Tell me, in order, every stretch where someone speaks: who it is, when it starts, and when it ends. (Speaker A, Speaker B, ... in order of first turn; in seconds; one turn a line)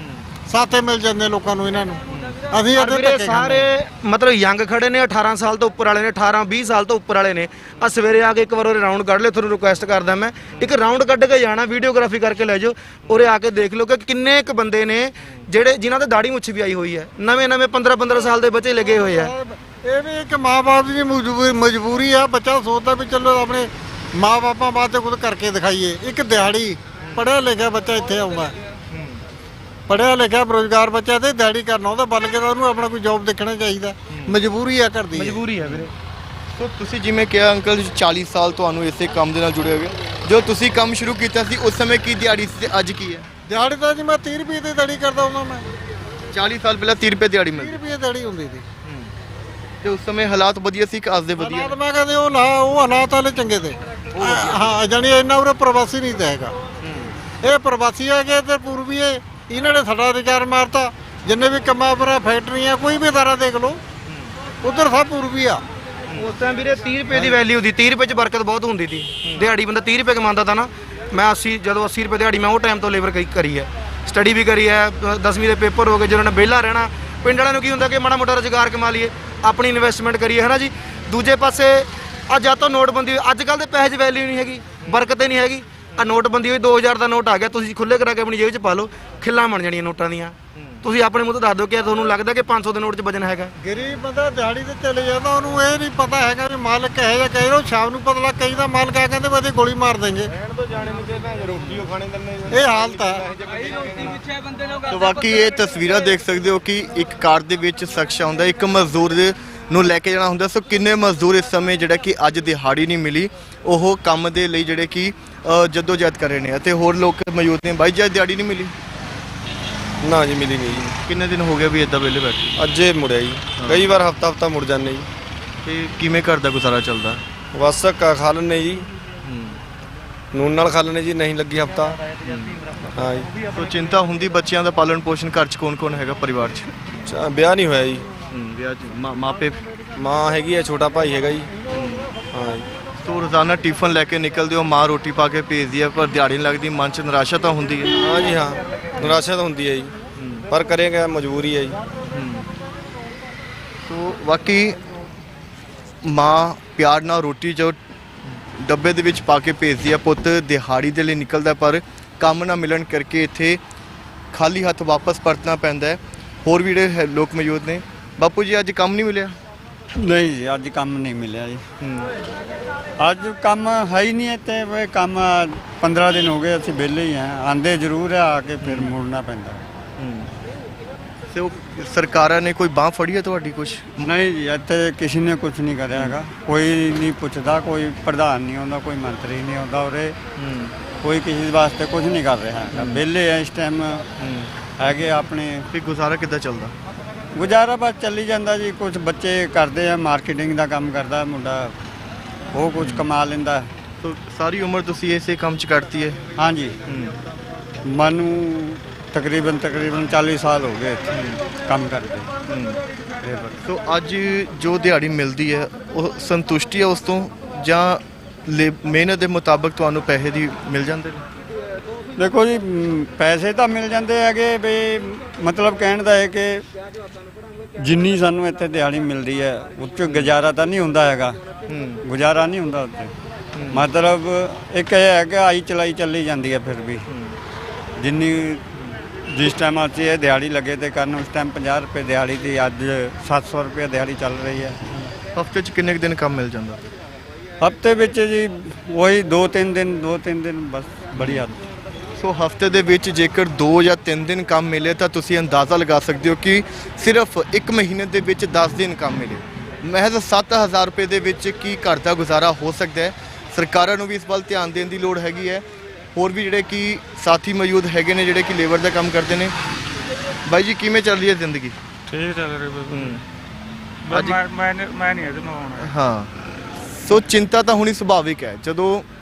Speaker A: 0.5-3.7
Speaker B: 2.1-2.4
Speaker C: 2.7-19.3
Speaker A: 18.9-28.5
Speaker B: 28.9-29.2
Speaker A: 29.9-35.4
Speaker B: 34.1-34.4
Speaker C: 35.1-35.9
Speaker B: 35.6-35.9
Speaker B: 36.5-43.3
Speaker A: 43.5-45.6
Speaker B: 46.3-47.8
Speaker A: 47.5-48.7
Speaker B: 48.8-49.1
Speaker B: 49.8-51.7
Speaker A: 51.4-56.5
Speaker B: 54.1-54.8
Speaker B: 56.8-57.1
Speaker A: 57.4-63.8
Speaker A: 64.6-65.6
Speaker C: 66.2-93.5
Speaker B: 90.5-90.8
Speaker A: 93.6-100.3
Speaker D: 100.6-104.1
Speaker A: 102.5-103.2
Speaker B: 104.8-118.7
Speaker D: 120.0-120.9
Speaker B: 120.8-122.5
Speaker D: 122.5-125.1
Speaker B: 123.5-123.9
Speaker B: 125.6-127.2
Speaker D: 127.5-128.9
Speaker B: 129.2-129.6
Speaker D: 130.3-132.0
Speaker B: 132.2-132.6
Speaker D: 132.9-133.3
Speaker B: 133.5-136.9
Speaker D: 137.0-138.1
Speaker B: 138.3-139.6
Speaker D: 139.9-141.5
Speaker B: 141.7-142.1
Speaker D: 142.3-142.7
Speaker B: 143.0-147.9
Speaker D: 148.0-149.9
Speaker B: 150.2-150.4
Speaker D: 150.5-151.8
Speaker B: 152.1-152.5
Speaker B: 153.8-154.8
Speaker B: 156.0-157.8
Speaker B: 158.4-163.6
Speaker B: 164.3-169.3
Speaker E: 170.0-171.6
Speaker B: 171.8-172.1
Speaker E: 173.0-179.7
Speaker B: 178.6-178.9
Speaker B: 180.0-180.3
Speaker B: 181.3-184.1
Speaker E: 184.0-190.2
Speaker B: 185.9-186.2
Speaker B: 190.4-190.7
Speaker E: 191.0-194.1
Speaker B: 192.7-193.0
Speaker B: 194.2-194.5
Speaker E: 194.8-195.7
Speaker B: 195.7-196.7
Speaker E: 197.3-201.8
Speaker E: 202.5-203.7
Speaker B: 202.8-203.1
Speaker B: 204.0-206.2
Speaker E: 206.4-206.8
Speaker B: 206.8-207.2
Speaker E: 207.8-212.3
Speaker B: 211.1-211.4
Speaker B: 212.5-212.8
Speaker E: 213.2-213.6
Speaker B: 213.6-221.2
Speaker E: 222.2-226.7
Speaker E: 227.8-231.4
Speaker B: 230.0-230.3
Speaker B: 231.7-232.0
Speaker E: 232.0-233.1
Speaker B: 233.5-233.8
Speaker E: 233.7-237.0
Speaker B: 237.1-237.3
Speaker E: 238.0-238.7
Speaker E: 239.3-244.8
Speaker B: 245.3-246.8
Speaker E: 247.6-251.6
Speaker B: 251.2-251.5
Speaker B: 252.2-265.6
Speaker B: 266.1-269.5
Speaker B: 270.4-271.8
Speaker F: 272.1-272.9
Speaker E: 272.1-272.9
Speaker B: 272.9-273.2
Speaker F: 274.1-275.8
Speaker B: 274.1-274.4
Speaker B: 275.8-276.3
Speaker B: 276.9-279.1